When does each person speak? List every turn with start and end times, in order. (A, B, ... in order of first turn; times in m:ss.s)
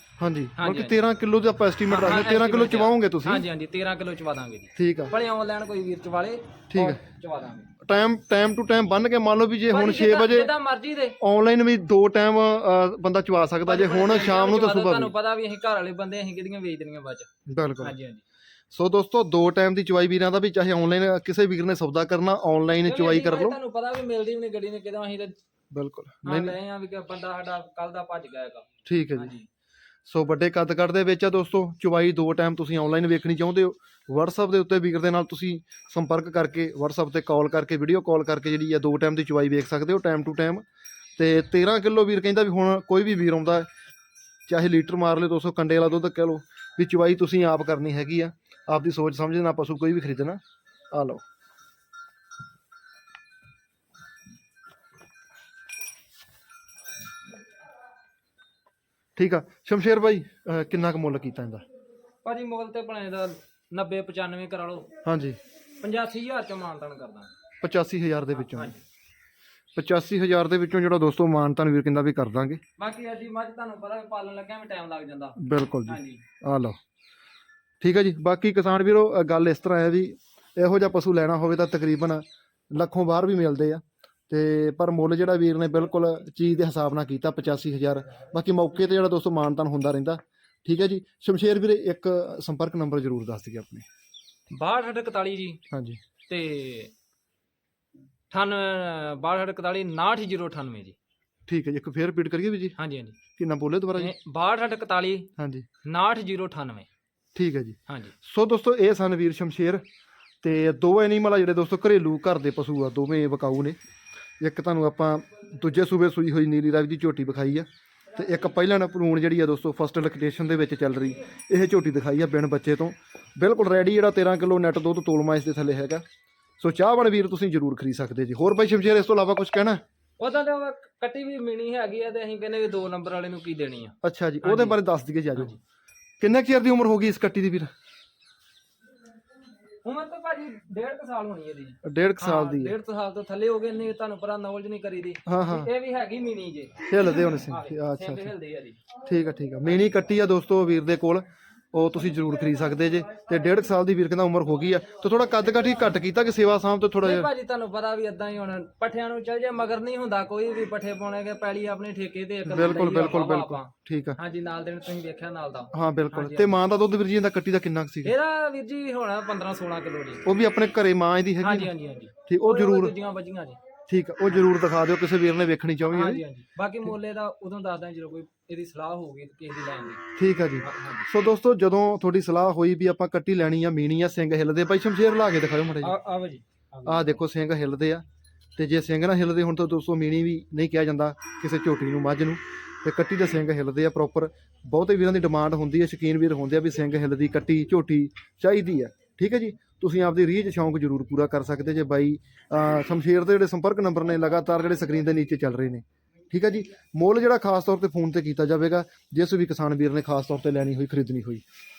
0:00.2-0:03.5 A
0:00.6-0:01.0 B
0:01.9-0:07.7 B
0:04.8-0:05.1 A
0:06.7-0:07.0 A
0:07.8-0:10.5 A
0:09.7-0:11.2 B
0:11.2-0:15.1 A
0:13.6-0:17.3 B
0:17.5-0:18.0 A
0:17.8-0:18.2 B
0:18.7-0:23.6 A
0:22.8-0:25.4 B
0:25.7-0:26.6 A
0:26.2-0:29.5 B
0:28.8-0:29.3 A
0:30.1-0:40.6 A
0:41.2-0:43.7 A
0:44.5-0:50.4 A
0:50.9-0:51.2 A
0:59.2-1:01.6 A
1:02.2-1:04.9 B
1:05.0-1:05.4 A
1:05.8-1:07.3 B
1:07.6-1:08.8 A
1:08.4-1:08.8 B
1:09.8-1:12.6 A
1:12.8-1:16.2 B
1:15.4-1:16.8 A
1:17.8-1:33.9 A
1:34.5-1:35.6 B
1:35.7-1:36.0 A
1:36.3-1:36.9 B
1:38.3-1:41.0 B
1:41.5-1:42.8 A
1:42.8-1:43.2 B
1:43.4-1:44.1 A
1:44.0-1:45.3 B
1:45.4-1:45.7 A
1:45.8-1:46.9 B
1:47.4-1:49.8 A
1:50.4-1:53.8 A
1:54.4-2:06.0 A
2:06.6-2:09.8 A
2:10.2-2:14.8 B
2:14.0-2:15.6 A
2:16.2-2:17.7 A
2:19.8-2:28.8 B
2:21.8-2:22.7 A
2:25.3-2:25.7 A
2:26.9-2:28.3 A
2:29.0-2:37.3 A
2:37.0-2:46.6 B
2:42.5-2:44.2 A
2:45.7-2:48.1 A
2:48.0-2:50.2 B
2:50.2-2:51.7 A
2:51.4-2:53.6 B
2:52.3-2:52.9 A
2:53.9-2:56.2 A
2:55.8-3:00.0 B
3:00.2-3:06.0 A
3:00.6-3:01.1 B
3:05.8-3:07.2 B
3:06.9-3:08.0 A
3:08.6-3:31.4 A